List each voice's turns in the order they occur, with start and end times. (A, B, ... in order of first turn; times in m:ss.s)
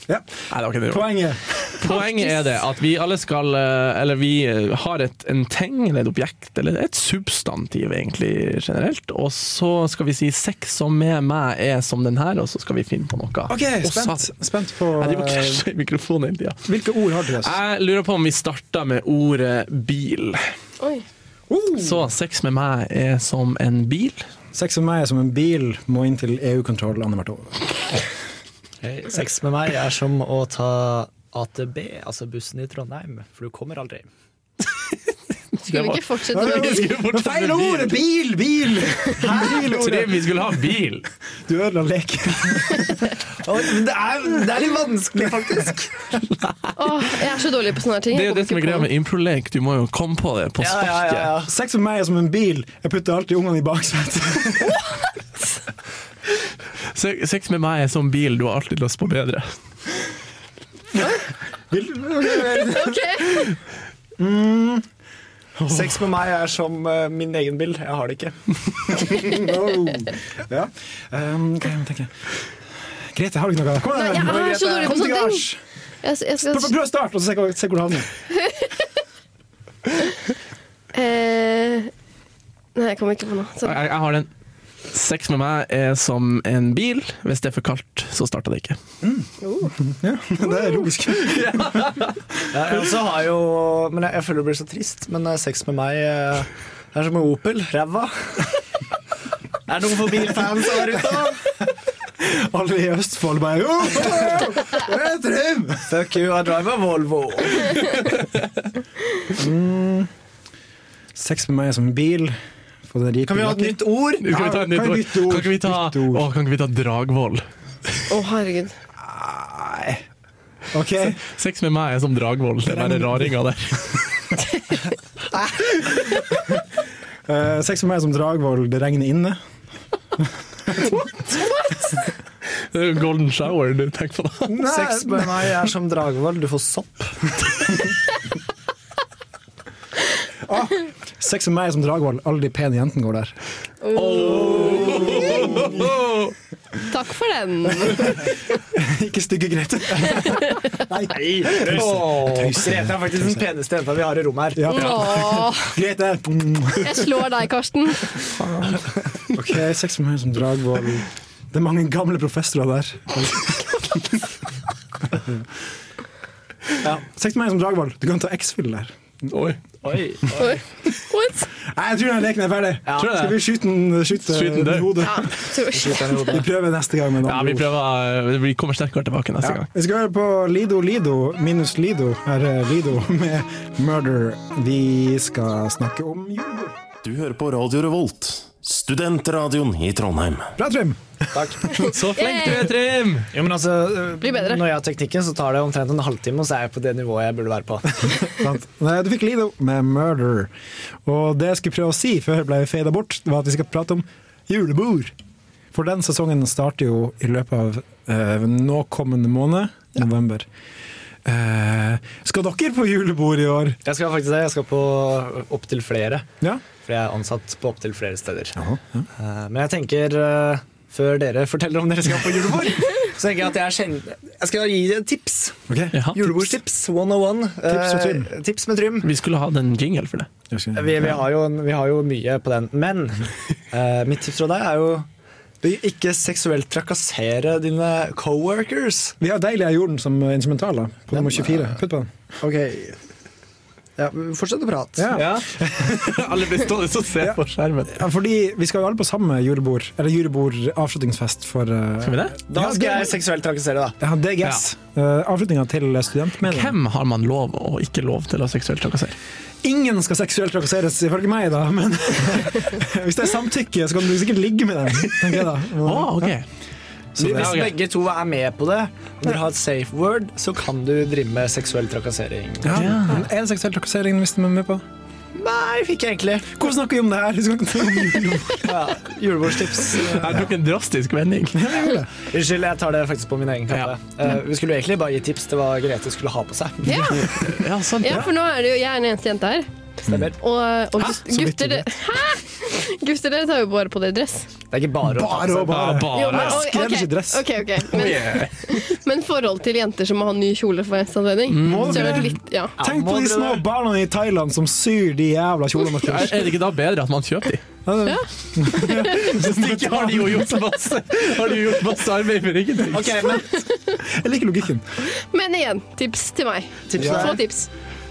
0:00.5-0:01.2 A
0:00.9-0:01.8 B
0:01.8-0:14.3 A
0:13.5-0:15.6 B
0:15.0-0:16.6 A
0:16.7-0:17.6 B
0:17.3-0:20.5 A
0:20.8-0:21.0 C
0:21.5-0:22.1 B
0:21.8-0:24.2 A
0:24.5-0:28.0 B
0:28.8-0:34.1 D
0:35.6-0:37.0 C
0:35.6-0:38.0 A
0:36.3-0:40.2 B
0:39.2-0:39.8 D
0:39.2-0:41.1 A
0:41.5-0:43.2 B
0:43.4-0:45.9 D
0:46.8-0:48.9 C
0:48.1-0:51.4 A
0:50.6-0:51.5 D
0:51.4-0:54.8 B
0:56.9-0:59.5 A
1:01.7-1:03.5 B
1:02.5-1:03.5 C
1:04.2-1:04.9 B
1:05.6-1:06.0 B
1:05.7-1:09.1 D
1:08.9-1:12.1 B
1:13.1-1:15.6 B
1:13.9-1:15.5 C
1:14.1-1:15.0 D
1:16.0-1:16.7 C
1:16.4-1:18.1 B
1:20.9-1:21.9 C
1:22.8-1:23.8 C
1:23.6-1:24.3 A
1:24.9-1:28.8 A
1:29.0-1:32.0 B
1:29.4-1:29.7 C
1:31.2-1:32.1 A
1:32.5-1:38.5 D
1:39.7-1:41.4 D
1:42.2-1:45.9 B
1:45.9-1:48.0 D
1:49.3-1:50.1 B
1:51.2-1:52.4 B
1:52.9-1:56.3 B
1:53.3-1:54.4 D
1:54.2-1:57.4 A
1:58.1-1:58.8 C
1:59.0-2:00.0 B
2:00.7-2:01.2 B
2:01.2-2:04.3 A
2:02.7-2:03.3 B
2:07.3-2:09.4 B
2:10.2-2:11.0 B
2:12.7-2:14.7 A
2:14.5-2:15.5 B
2:14.6-2:17.3 D
2:20.5-2:23.4 B
2:23.8-2:25.1 C
2:23.9-2:26.3 A
2:24.1-2:25.7 D
2:25.1-2:25.8 B
2:26.9-2:28.3 C
2:27.9-2:33.5 B
2:31.1-2:34.8 D
2:34.6-2:37.1 B
2:34.7-2:35.7 C
2:34.8-2:35.3 A
2:36.8-2:38.1 C
2:38.4-2:43.4 B
2:45.2-2:45.4 B
2:46.8-2:49.0 B
2:49.3-2:49.6 A
2:49.8-2:50.6 D
2:50.4-2:51.5 C
2:51.6-2:55.4 B
2:52.9-2:53.3 D
2:53.0-2:53.4 A
2:54.2-2:55.2 A
2:55.0-2:56.4 C
2:55.6-2:56.5 D
2:56.3-2:57.7 B
2:57.2-2:59.7 A
2:59.4-3:06.8 B
3:07.0-3:10.5 E
3:10.6-3:12.0 B
3:11.3-3:11.8 D
3:11.8-3:13.3 A
3:11.8-3:12.7 C
3:13.3-3:18.4 D
3:14.2-3:14.6 C
3:18.1-3:20.5 B
3:21.0-3:25.1 B
3:25.7-3:30.5 B
3:31.2-3:33.8 B
3:33.8-3:36.3 D
3:36.8-3:38.6 D
3:38.6-3:39.1 B
3:39.2-3:45.6 D
3:45.7-3:46.0 B
3:45.9-3:46.4 A
3:46.1-3:49.1 D
3:47.7-3:48.3 B
3:49.0-3:50.3 A
3:50.5-3:51.1 B
3:50.8-3:55.1 D
3:55.6-3:59.2 D
3:59.2-4:02.1 B
4:01.2-4:01.7 D
4:02.4-4:03.0 D
4:04.0-4:05.2 D
4:05.0-4:06.0 B
4:05.1-4:08.0 A
4:07.2-4:13.2 B
4:12.0-4:12.4 A
4:12.5-4:14.0 D
4:14.0-4:16.8 B
4:16.4-4:19.2 A
4:19.6-4:26.4 B
4:25.8-4:26.4 A
4:27.2-4:27.7 B
4:27.2-4:33.0 D
4:27.2-4:27.8 A
4:32.6-4:34.8 B
4:32.7-4:33.2 A
4:35.4-4:36.6 D
4:36.5-4:38.8 B
4:38.6-4:40.5 D
4:40.1-4:41.6 A
4:41.5-4:42.1 B
4:42.3-4:47.6 D
4:46.8-4:47.4 C
4:46.9-4:47.2 B
4:47.3-4:48.3 A
4:48.0-4:54.5 C
4:50.1-4:50.3 D
4:51.0-4:51.9 B
4:54.7-4:56.0 D
4:55.0-4:58.1 B
4:55.7-4:56.7 A
4:56.1-5:02.8 C
4:57.9-4:58.8 A
5:01.5-5:02.3 A
5:01.6-5:06.6 B
5:02.8-5:03.6 D
5:06.0-5:07.6 A
5:07.9-5:10.6 B
5:08.0-5:09.0 C
5:08.8-5:13.4 A
5:12.9-5:13.4 D
5:12.9-5:15.0 B
5:13.5-5:14.0 C
5:15.1-5:17.7 C
5:16.9-5:17.4 D
5:17.0-5:17.4 B